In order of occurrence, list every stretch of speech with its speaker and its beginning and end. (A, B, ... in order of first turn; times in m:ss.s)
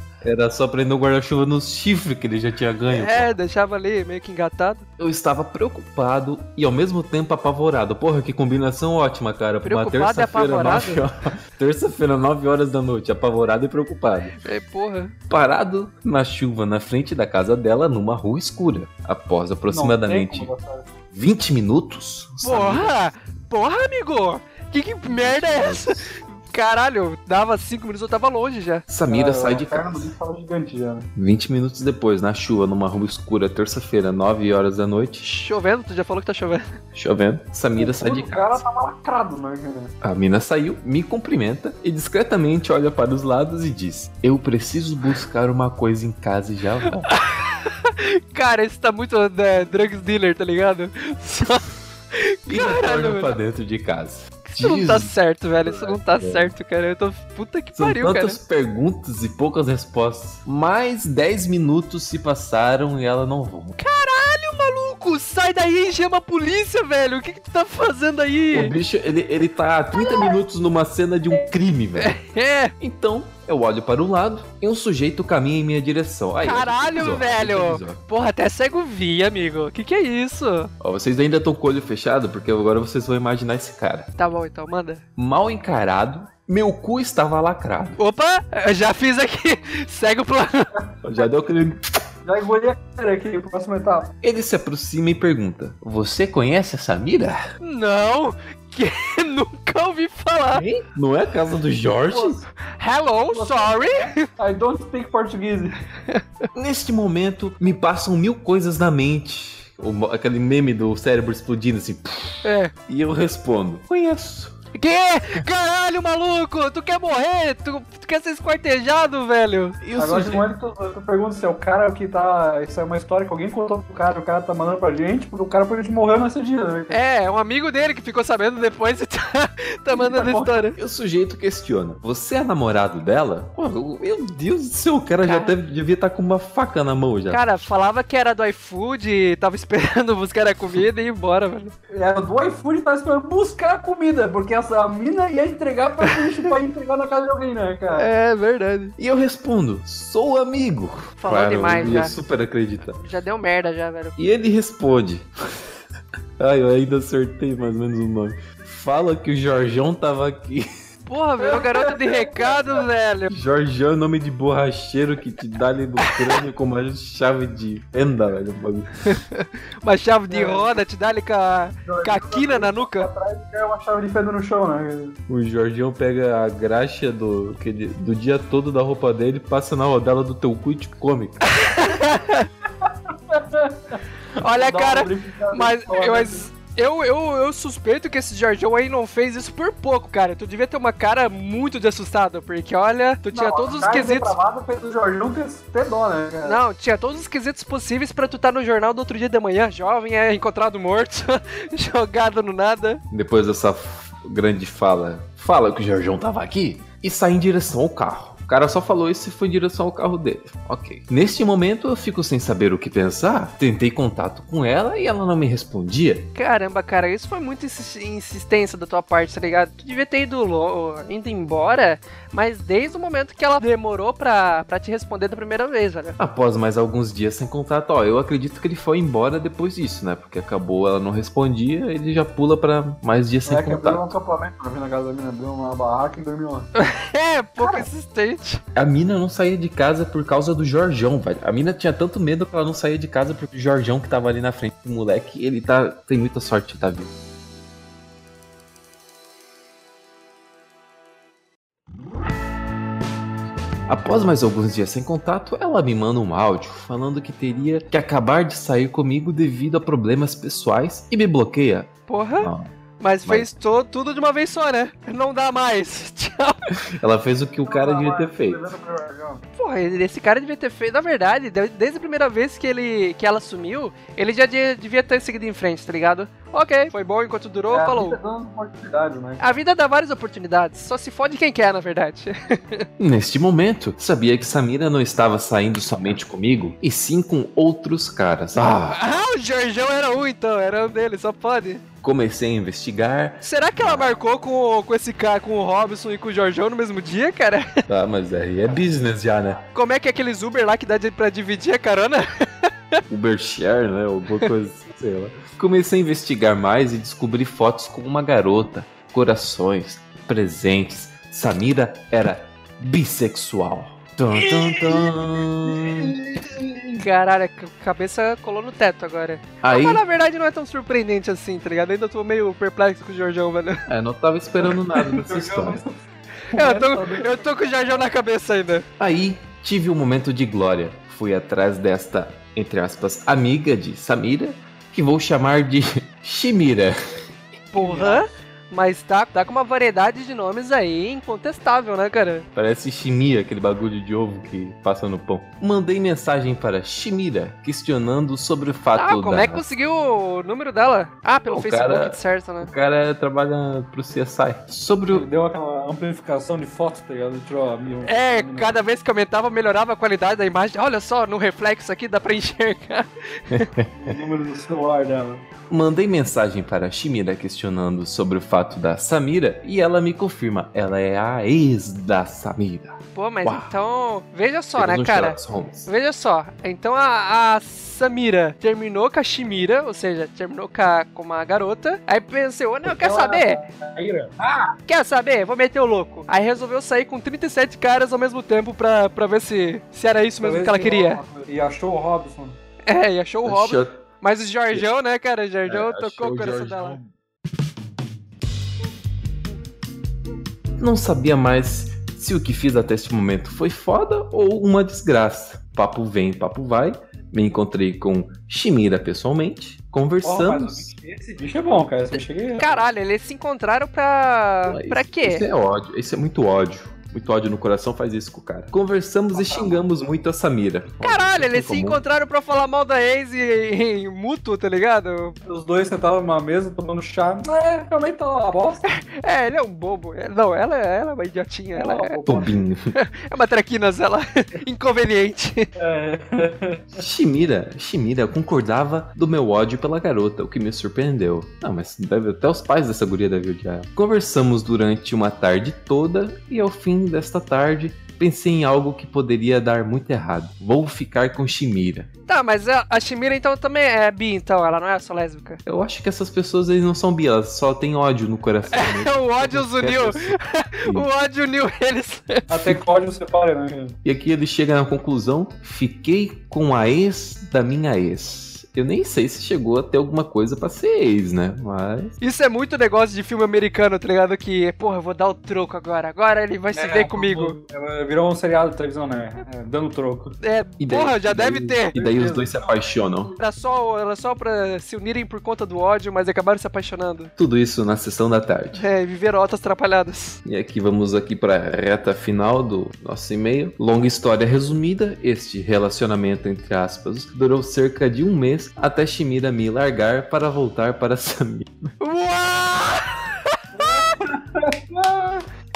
0:00.2-0:03.3 A
0:02.9-0:04.8 B
0:05.0-0:14.4 A
0:09.6-0:11.0 B
0:14.4-0:15.1 B
0:15.3-0:20.5 A
0:19.7-0:20.9 C
0:21.1-0:23.0 A
0:22.4-0:28.8 B
0:25.1-0:26.1 A
0:28.9-0:30.1 A
0:29.1-0:31.1 C
0:31.2-0:35.2 A
0:35.2-0:36.7 B
0:36.9-0:38.6 A
0:37.8-0:39.9 C
0:40.0-0:47.1 A
0:47.1-0:53.4 B
0:52.5-0:55.1 A
0:54.5-0:58.4 B
0:55.6-0:56.5 A
0:57.8-1:03.8 A
1:03.8-1:08.8 B
1:08.5-1:12.2 A
1:12.0-1:12.7 B
1:12.8-1:18.0 A
1:16.4-1:20.7 B
1:20.8-1:24.1 A
1:24.2-1:25.0 B
1:25.2-1:28.0 A
1:28.0-1:30.7 B
1:31.0-1:32.0 A
1:32.2-1:34.1 C
1:34.2-1:37.4 A
1:37.6-1:40.6 B
1:40.5-1:42.4 A
1:42.7-1:44.3 B
1:43.3-1:45.8 C
1:46.5-1:54.6 A
1:52.4-1:52.7 B
1:54.7-1:59.8 B
1:59.8-2:00.5 A
2:00.0-2:07.0 C
2:06.9-2:10.8 B
2:09.9-2:10.6 C
2:10.8-2:17.4 A
2:15.2-2:15.5 B
2:17.3-2:21.7 B
2:21.9-2:28.1 C
2:27.9-2:29.0 B
2:29.0-2:33.0 A
2:31.2-2:32.2 B
2:32.9-2:34.2 B
2:34.2-2:35.3 A
2:36.4-2:40.7 A
2:41.1-2:43.3 B
2:41.4-2:42.8 C
2:43.3-2:48.9 A
2:49.0-2:53.1 B
2:50.3-2:50.8 C
2:51.9-2:55.2 C
2:55.3-3:01.7 A
3:01.4-3:02.5 B
3:02.8-3:06.5 C
3:04.4-3:14.3 B
3:13.3-3:16.6 C
3:16.4-3:23.0 B
3:23.1-3:36.3 A
3:36.4-3:46.2 B
3:46.2-3:54.1 A
3:53.5-3:56.7 C
3:56.8-3:58.6 B
3:58.8-4:07.1 A
4:13.9-4:22.7 A
4:22.1-4:26.6 B
4:26.8-4:28.7 A
4:27.6-4:29.4 C
4:29.6-4:38.2 B
4:37.7-4:39.5 C
4:39.4-4:42.9 B
4:43.0-4:49.0 A
4:48.9-4:51.8 B
4:52.0-4:54.2 A
4:53.4-4:57.9 B
4:57.9-4:59.6 A
4:59.7-5:03.0 B
5:03.1-5:16.2 A
5:14.6-5:17.0 C
5:17.0-5:23.8 B
5:19.6-5:20.0 A
5:23.9-5:25.8 A
5:24.9-5:25.9 C
5:26.5-5:28.1 C
5:26.5-5:28.9 B
5:29.0-5:37.0 A
5:37.7-5:42.5 B
5:37.7-5:38.2 C
5:42.6-5:49.6 A
5:49.0-5:52.7 B
5:51.5-5:55.3 A
5:55.1-5:58.8 C
5:58.1-6:03.7 B
6:03.5-6:04.2 A
6:03.9-6:05.5 C
6:05.7-6:13.7 A
6:13.2-6:23.6 B
6:14.8-6:15.9 A
6:22.8-6:24.7 C
6:24.9-6:31.2 B
6:30.4-6:32.6 C
6:32.9-6:37.0 B
6:33.4-6:34.0 A
6:35.7-6:37.1 A
6:40.8-6:50.8 A
6:50.2-6:52.8 C
6:52.6-6:55.4 B
6:54.7-7:02.0 A
6:59.3-6:59.8 C
7:01.0-7:05.4 B
7:05.5-7:08.8 C
7:08.9-7:12.2 B
7:11.8-7:12.6 C
7:12.3-7:12.9 A
7:12.9-7:15.7 B
7:15.8-7:17.0 C
7:17.0-7:32.1 A
7:32.3-7:35.6 B
7:35.7-7:40.4 A
7:38.7-7:42.8 B
7:42.5-7:44.0 C
7:44.0-7:52.2 A
7:52.2-7:57.6 B
7:56.7-8:00.4 C
8:00.4-8:02.0 B
8:00.8-8:03.3 A
8:01.9-8:02.8 C
8:03.4-8:07.3 B
8:07.4-8:08.8 A
8:08.8-8:10.4 B
8:10.4-8:21.9 A
8:22.0-8:24.2 B
8:23.7-8:25.5 C